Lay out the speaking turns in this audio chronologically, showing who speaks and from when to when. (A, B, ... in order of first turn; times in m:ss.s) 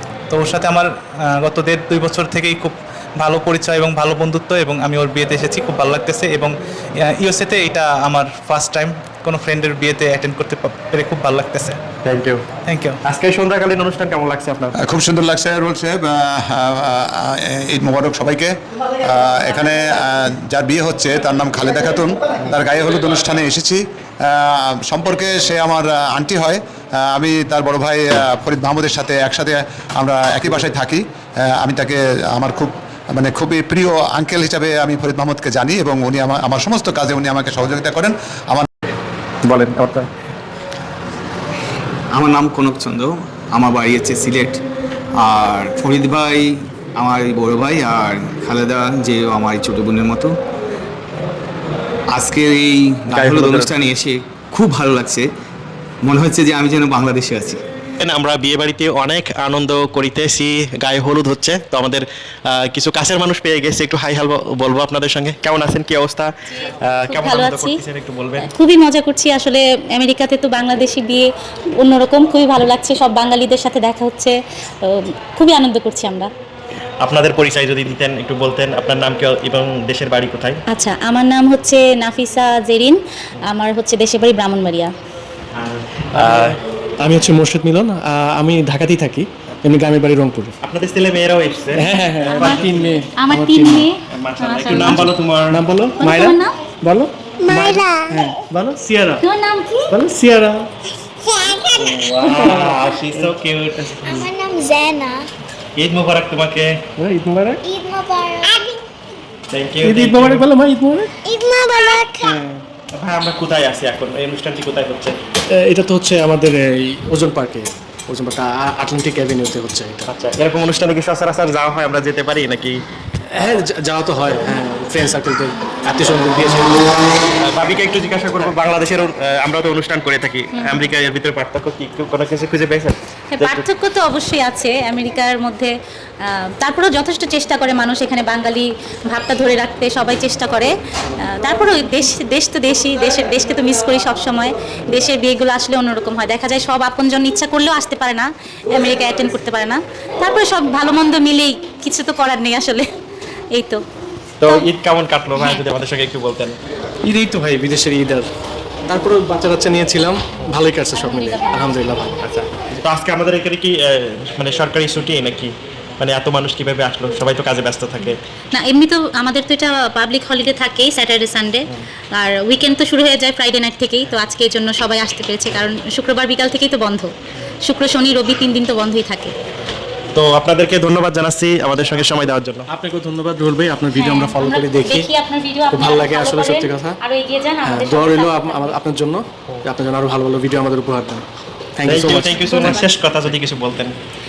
0:00.3-0:11.8 A
0:12.0-0:12.4 B
0:12.7-0:13.0 A
0:13.0-0:14.8 B
0:14.8-0:38.7 C
0:39.4-0:40.1 B
0:42.1-0:44.6 D
0:45.2-0:50.3 D
0:52.1-0:55.3 D
0:53.1-0:53.7 B
0:56.0-0:57.6 D
0:58.0-1:06.3 B
1:06.8-1:08.5 B
1:07.1-1:07.8 E
1:08.4-1:16.3 E
1:17.0-1:20.6 B
1:20.7-1:24.9 E
1:25.5-1:26.6 B
1:26.1-1:30.5 F
1:30.6-1:33.0 B
1:31.8-1:33.9 F
1:32.2-1:35.1 E
1:34.1-1:35.6 B
1:34.7-1:39.2 F
1:36.0-1:36.5 E
1:37.5-1:38.3 G
1:39.2-1:39.9 E
1:39.9-1:40.6 F
1:41.3-1:41.9 G
1:41.8-1:44.3 B
1:42.3-1:43.3 F
1:44.1-1:45.2 G
1:45.8-1:46.8 B
1:47.0-1:47.6 F
1:47.7-1:48.8 G
1:49.5-1:50.5 B
1:49.8-1:51.1 F
1:51.2-1:52.4 G
1:52.2-1:55.2 B
1:55.5-2:00.1 F
2:00.1-2:02.8 B
2:03.3-2:06.9 F
2:07.4-2:13.6 B
2:10.5-2:10.8 E
2:13.3-2:15.7 E
2:16.2-2:20.7 E
2:21.3-2:32.9 E
2:33.5-2:33.8 E
2:34.4-2:36.6 B
2:37.0-2:38.3 F
2:38.9-2:42.2 F
2:40.9-2:41.8 E
2:42.2-2:48.2 B
2:48.5-2:57.1 E
2:57.6-2:59.3 E
3:00.1-3:02.6 B
3:02.7-3:05.1 F
3:03.9-3:08.8 E
3:05.7-3:07.0 F
3:07.6-3:11.2 F
3:11.8-3:12.3 F
3:11.8-3:14.0 B
3:12.3-3:12.9 E